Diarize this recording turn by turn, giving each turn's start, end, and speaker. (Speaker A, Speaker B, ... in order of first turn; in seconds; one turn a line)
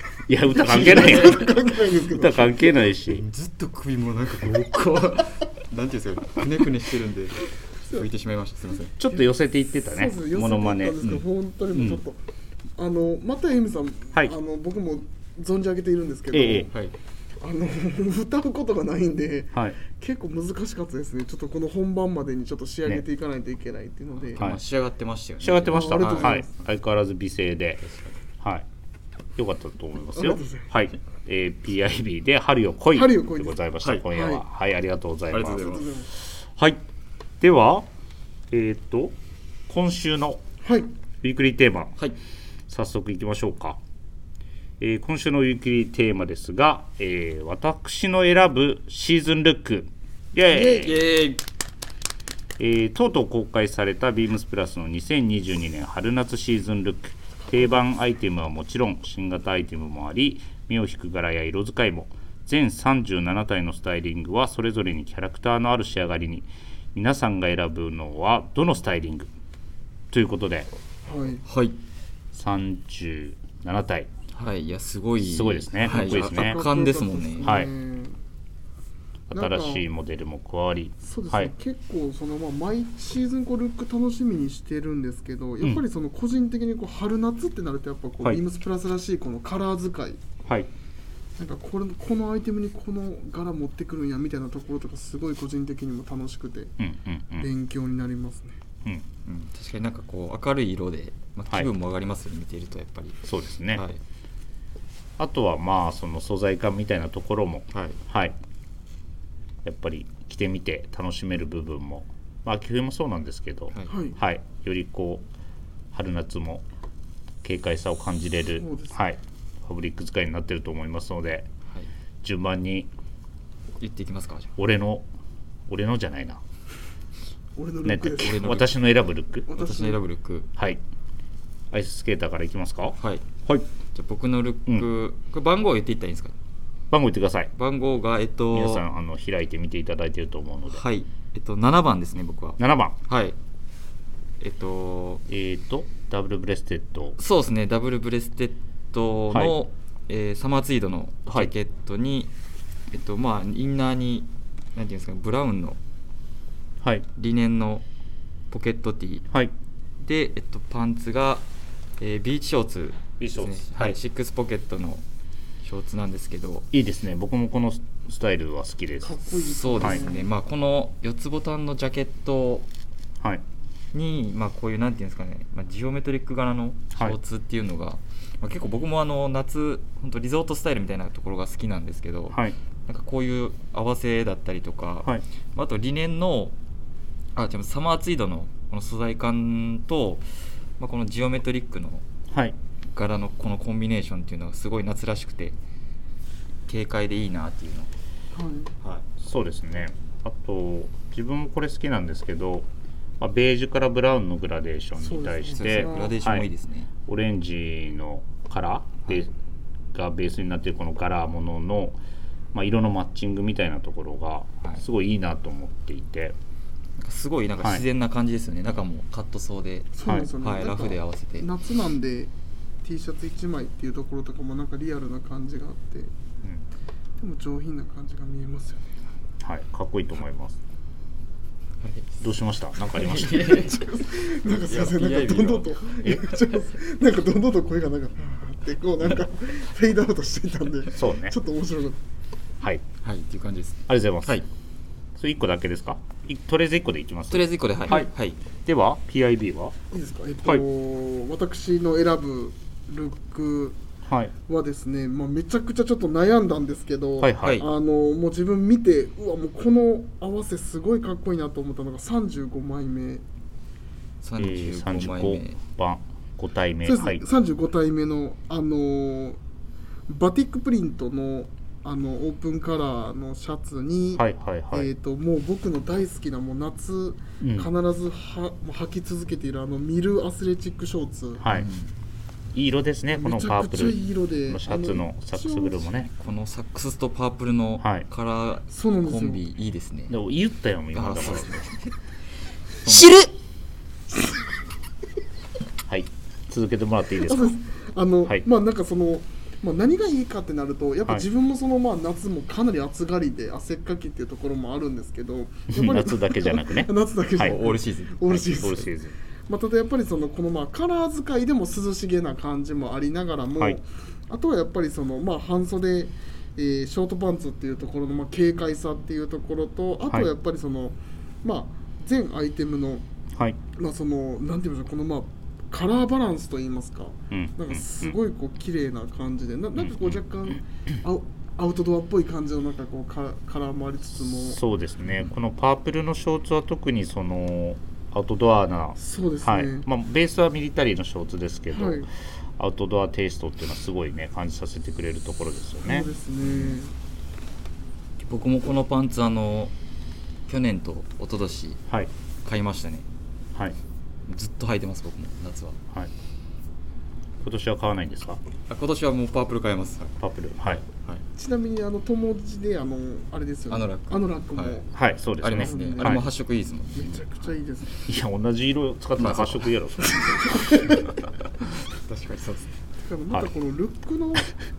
Speaker A: 0.3-1.5
Speaker B: 0.5-2.8
Speaker C: 0.7-1.5
Speaker A: 2.1-3.2
Speaker C: 3.1-8.9
Speaker A: 9.0-11.0
Speaker B: 9.8-12.2
Speaker A: 11.7-12.0
Speaker B: 12.8-16.7
Speaker A: 16.3-16.7
Speaker B: 17.4-24.4
Speaker C: 24.3-26.4
Speaker A: 25.4-27.8
Speaker B: 25.7-26.5
Speaker C: 27.8-28.2
Speaker A: 29.4-36.8
Speaker B: 30.2-30.7
Speaker B: 32.9-33.5
Speaker B: 34.1-34.4
Speaker C: 35.3-35.9
Speaker B: 35.5-36.1
Speaker A: 37.4-37.9
Speaker A: 38.5-39.1
Speaker A: 39.7-40.4
Speaker B: 40.6-40.9
Speaker A: 41.2-42.0
Speaker A: 42.7-43.8
Speaker A: 44.8-51.0
Speaker C: 50.5-51.4
Speaker A: 52.6-69.3
Speaker A: 70.1-70.7
Speaker B: 71.0-71.4
Speaker C: 71.4-71.8
Speaker A: 72.3-74.1
Speaker C: 74.3-77.5
Speaker A: 75.2-76.6
Speaker B: 75.8-78.2
Speaker A: 77.4-77.7
Speaker A: 79.3-81.5
Speaker B: 79.3-79.8
Speaker B: 81.0-90.2
Speaker B: 91.4-96.7
Speaker A: 96.8-97.5
Speaker B: 97.4-98.6
Speaker C: 99.2-104.0
Speaker A: 103.2-103.8
Speaker A: 105.2-108.3
Speaker C: 107.7-108.0
Speaker A: 109.6-115.2
Speaker B: 113.9-114.2
Speaker A: 115.9-116.6
Speaker A: 117.4-121.5
Speaker B: 118.6-118.9
Speaker A: 122.2-122.9
Speaker C: 123.8-124.5
Speaker A: 124.6-125.1
Speaker A: 125.7-126.4
Speaker B: 127.5-128.6
Speaker A: 127.8-129.5
Speaker C: 128.2-128.7
Speaker B: 129.5-130.0
Speaker C: 129.5-130.5
Speaker A: 131.7-132.9
Speaker C: 133.0-133.2
Speaker C: 133.9-136.3
Speaker A: 136.9-137.5
Speaker C: 137.5-138.8
Speaker A: 138.5-140.8
Speaker C: 140.7-143.3
Speaker A: 142.6-143.0
Speaker C: 144.4-145.2
Speaker A: 145.3-147.2
Speaker C: 147.2-152.3
Speaker C: 152.9-155.8
Speaker A: 156.8-157.1
Speaker C: 157.2-157.8
Speaker C: 158.5-159.3
Speaker C: 160.0-161.4
Speaker C: 162.0-165.0
Speaker A: 163.2-163.9
Speaker C: 165.6-166.7
Speaker A: 166.7-169.2
Speaker B: 169.0-170.3
Speaker C: 169.4-172.7
Speaker C: 173.9-186.5
Speaker A: 182.3-182.6
Speaker C: 187.3-190.3
Speaker C: 190.8-192.0
Speaker A: 192.3-192.6
Speaker C: 192.9-195.6
Speaker C: 196.7-197.9
Speaker B: 198.3-198.7
Speaker A: 199.2-202.7
Speaker A: 203.2-206.5
Speaker B: 205.0-206.2
Speaker C: 205.5-206.9
Speaker A: 207.1-209.3
Speaker A: 209.9-212.0
Speaker A: 212.5-216.3
Speaker C: 217.0-221.5
Speaker B: 219.9-222.3
Speaker B: 222.8-226.1
Speaker B: 227.2-228.9
Speaker A: 229.4-230.6
Speaker C: 231.8-232.2
Speaker A: 232.2-233.7
Speaker C: 232.8-236.6
Speaker B: 233.4-242.0
Speaker A: 240.9-241.3
Speaker C: 243.0-244.4
Speaker A: 243.9-244.4
Speaker A: 245.2-248.1
Speaker C: 247.3-248.4
Speaker A: 248.6-249.7
Speaker B: 249.9-253.8
Speaker A: 254.1-254.3
Speaker B: 254.5-263.2
Speaker A: 257.2-257.6
Speaker C: 257.4-257.7
Speaker C: 264.2-265.6
Speaker A: 264.4-267.2
Speaker B: 266.8-269.4
Speaker B: 270.1-281.4
Speaker A: 274.1-274.9
Speaker A: 277.4-277.7
Speaker A: 281.4-281.7
Speaker C: 281.5-281.9
Speaker A: 282.5-286.1
Speaker B: 283.1-285.9
Speaker C: 286.1-290.1
Speaker A: 287.8-288.1
Speaker B: 288.7-289.4
Speaker A: 290.1-291.7
Speaker C: 290.9-291.9
Speaker A: 292.8-293.1
Speaker C: 292.8-293.3
Speaker A: 295.9-297.6
Speaker B: 297.2-308.9
Speaker A: 305.7-307.6
Speaker C: 307.4-308.8
Speaker A: 308.5-309.1
Speaker B: 309.5-323.1
Speaker B: 323.7-334.6
Speaker A: 327.3-328.1
Speaker A: 329.8-330.2
Speaker A: 334.4-346.1
Speaker B: 339.0-339.9
Speaker B: 341.7-342.1
Speaker B: 345.8-346.9
Speaker C: 348.2-349.7
Speaker C: 350.5-351.8
Speaker C: 352.4-353.1
Speaker C: 354.3-355.8
Speaker A: 357.4-358.4
Speaker C: 358.7-360.2
Speaker A: 360.2-360.8
Speaker C: 360.8-361.2
Speaker B: 361.3-364.9
Speaker C: 363.7-364.8
Speaker A: 364.9-366.3
Speaker C: 365.4-367.3
Speaker B: 365.5-366.3
Speaker B: 366.9-368.0
Speaker A: 368.1-370.7
Speaker C: 369.2-369.7
Speaker B: 370.2-371.0
Speaker C: 371.9-372.7
Speaker B: 373.0-374.5